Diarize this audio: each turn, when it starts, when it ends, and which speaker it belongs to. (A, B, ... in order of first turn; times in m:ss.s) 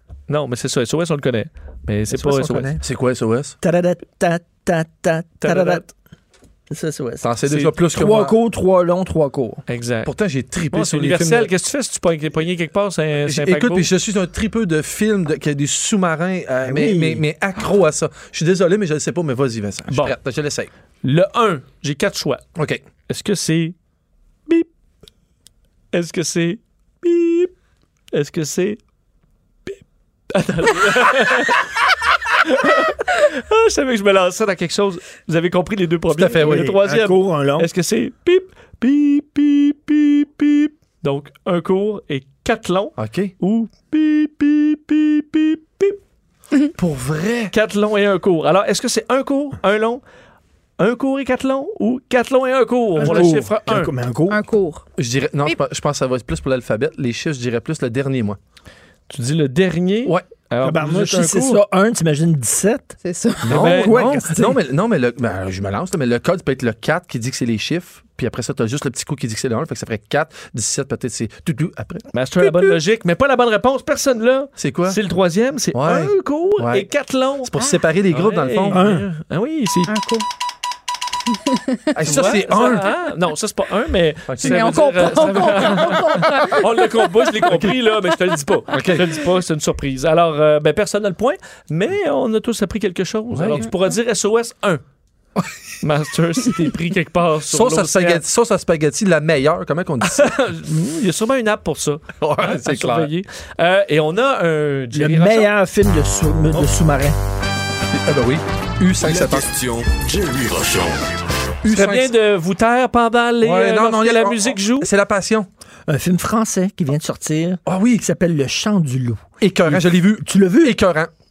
0:00.3-0:02.7 A
0:02.1-0:02.8 B
0:02.8-0:03.6 C
0:03.6-0:05.8 B
0:05.4-0:05.9 A
0:06.7-0:07.3 B
0:07.2-0:08.4 C
0:07.5-0:07.7 A
0:07.9-0:09.6 B
0:09.7-0:10.1 A
0:10.0-0:11.5 C
0:10.7-0:13.9 A
0:13.3-0:20.7 C
0:16.6-0:17.2 B
0:19.9-0:20.1 A
0:21.0-0:22.4 A
0:22.6-0:22.8 C
0:23.1-0:23.7 A
0:25.9-0:27.5 A
0:28.1-0:28.8 A
0:30.3-0:31.7 A
0:32.3-0:46.0 A
0:36.1-0:36.7 C
0:36.4-0:37.7 B
0:43.0-0:43.3 C
0:46.8-0:47.5 C
0:47.5-0:50.0 A
0:50.8-0:53.9 A
0:53.0-0:54.4 B
0:54.3-0:54.8 D
0:55.0-0:58.4 C
0:59.1-1:01.6 A
1:00.6-1:04.6 B
1:03.0-1:03.6 D
1:03.4-1:12.7 C
1:03.5-1:04.0 A
1:12.1-1:17.5 A
1:14.6-1:15.0 C
1:15.7-1:16.9 C
1:17.4-1:18.8 C
1:18.1-1:19.9 A
1:18.7-1:19.1 B
1:19.9-1:20.2 D
1:21.5-1:21.9 D
1:21.9-1:22.9 C
1:22.0-1:34.8 A
1:24.3-1:25.8 C
1:24.4-1:27.3 D
1:28.7-1:29.2 C
1:33.3-1:33.7 C
1:35.8-1:38.2 A
1:37.5-1:40.3 C
1:40.0-1:45.5 A
1:42.2-1:43.1 C
1:44.9-1:47.2 B
1:47.9-1:49.5 C
1:49.0-1:51.2 E
1:51.6-1:52.1 C
1:51.7-1:54.9 A
1:53.4-1:55.5 C
1:55.9-2:00.8 B
1:57.6-1:58.0 C
1:59.4-2:01.1 C